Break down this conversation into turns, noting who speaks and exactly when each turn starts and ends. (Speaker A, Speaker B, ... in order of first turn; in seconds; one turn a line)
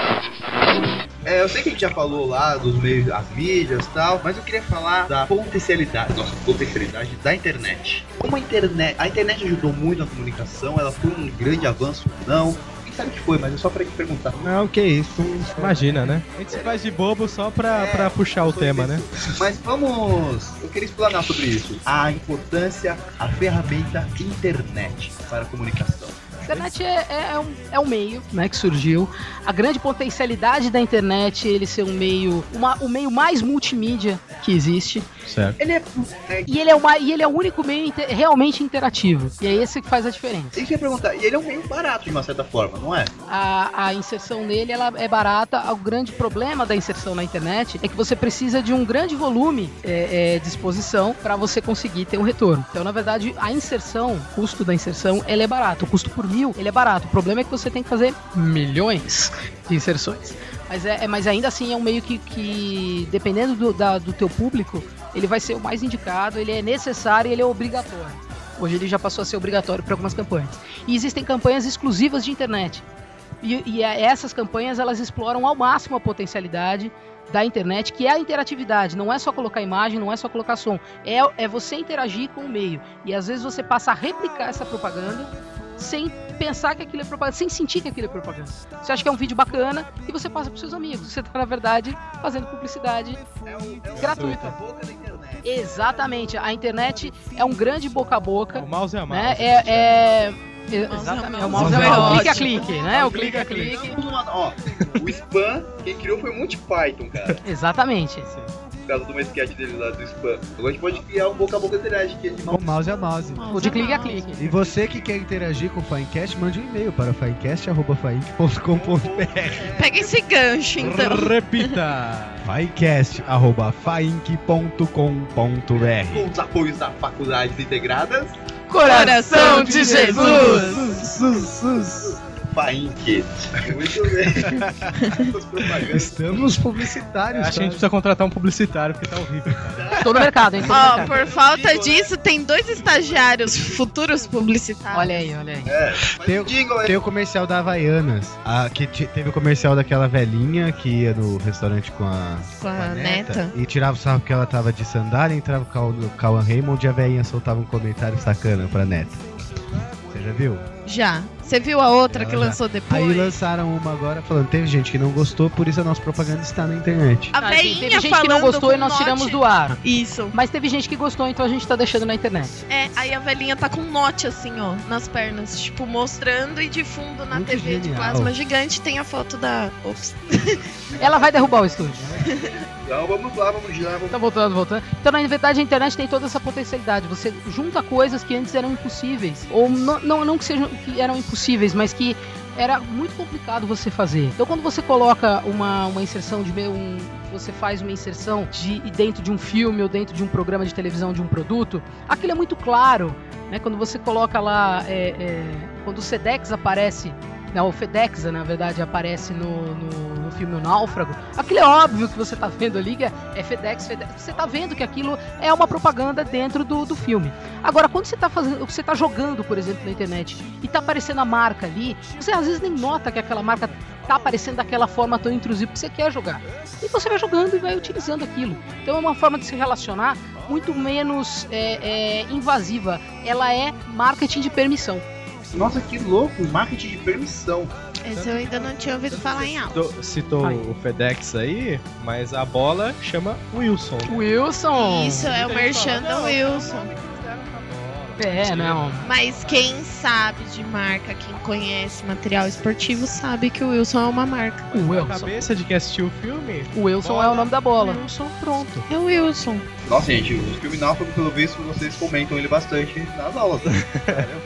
Speaker A: 1.2-14.5
Speaker B: 14.4-15.8
Speaker C: 15.5-19.1
Speaker A: 17.7-26.3
Speaker D: 26.4-35.1
Speaker C: 35.2-35.6
Speaker A: 35.6-36.5
Speaker D: 36.5-40.6
Speaker A: 40.5-43.1
Speaker D: 43.3-72.8
Speaker D: 73.4-93.2
Speaker A: 93.5-95.4
Speaker C: 93.9-94.5
Speaker D: 94.0-94.5
Speaker D: 95.4-104.0
Speaker C: 98.5-100.1
Speaker E: 100.8-102.9
Speaker C: 101.5-102.3
Speaker B: 101.5-102.3
Speaker A: 102.5-107.3
Speaker D: 107.4-108.3
Speaker A: 108.9-112.8
Speaker B: 112.5-119.7
Speaker E: 113.3-114.4
Speaker D: 113.5-114.4
Speaker A: 118.7-120.2
Speaker E: 119.7-121.8
Speaker C: 120.8-122.5
Speaker B: 122.4-126.3
Speaker A: 125.7-128.3
Speaker D: 128.7-130.7
Speaker E: 128.8-130.8
Speaker C: 129.5-130.9
Speaker B: 129.9-132.2
Speaker A: 132.3-134.6
Speaker B: 134.4-135.0
Speaker E: 135.0-135.3
Speaker A: 135.1-136.2
Speaker B: 135.8-137.9
Speaker C: 137.3-140.1
Speaker A: 139.8-142.1
Speaker D: 140.0-141.2
Speaker E: 140.7-145.3
Speaker D: 144.9-145.7
Speaker A: 145.7-147.0
Speaker B: 146.1-159.2
Speaker E: 152.6-153.5
Speaker B: 160.1-160.7
Speaker E: 160.8-163.4
Speaker B: 162.1-167.3
Speaker E: 167.3-170.3
Speaker D: 167.4-169.8
Speaker D: 170.3-172.6
Speaker E: 172.7-180.6
Speaker B: 177.3-178.3
Speaker A: 180.9-181.5
Speaker D: 181.0-182.1
Speaker E: 182.2-182.6
Speaker A: 182.8-184.1
Speaker D: 184.1-235.0
Speaker A: 235.5-237.7
Speaker E: 238.0-239.8
Speaker C: 238.1-244.3
Speaker D: 244.1-245.3
Speaker E: 244.8-246.9
Speaker C: 245.1-249.7
Speaker D: 248.2-249.1
Speaker E: 249.0-254.7
Speaker C: 254.7-258.1
Speaker D: 254.7-255.3
Speaker D: 256.7-258.8
Speaker E: 258.9-259.7
Speaker A: 259.9-264.3
Speaker C: 263.8-264.2